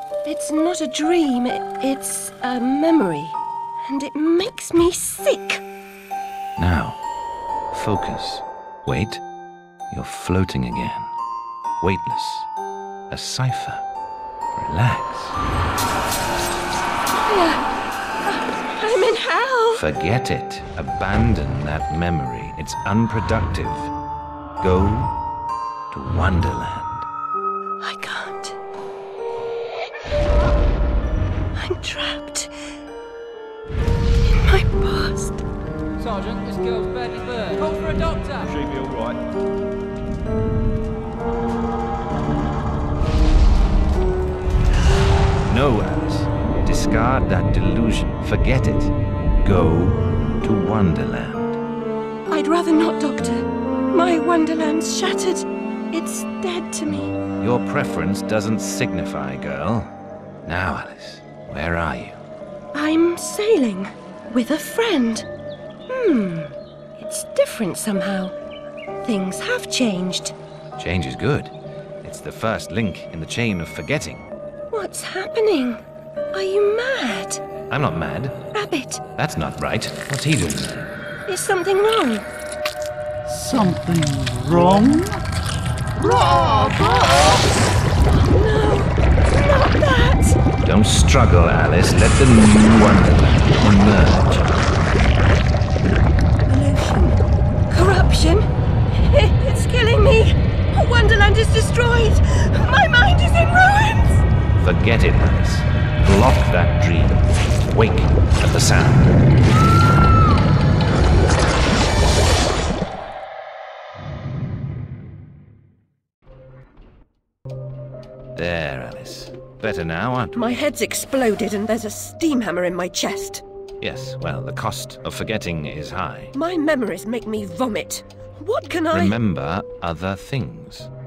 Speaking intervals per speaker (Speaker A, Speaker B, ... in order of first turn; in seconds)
Speaker A: 0.2-3.4, 3.9-5.6, 17.3-17.6, 18.3-19.8, 27.8-28.6, 31.6-32.5, 34.3-35.4, 52.3-57.2, 62.7-65.3, 65.9-68.3, 69.0-70.3, 74.7-75.8, 76.3-77.4, 78.5-79.0, 81.3-82.3, 86.0-87.4, 88.1-90.4, 96.5-104.2, 120.3-123.4, 126.3-129.2
Speaker B: 6.6-7.0, 7.7-9.2, 9.9-11.1, 11.8-12.5, 13.1-13.8, 14.6-15.4, 19.8-23.9, 24.6-25.2, 25.9-27.1, 38.5-39.2, 45.5-51.6, 57.4-59.9, 60.5-62.2, 70.8-74.3, 77.7-78.4, 79.2-80.9, 90.7-94.6, 104.6-109.2, 118.3-120.5, 123.8-126.3, 128.9-130.9
Speaker C: 36.0-38.3
Speaker D: 83.3-85.2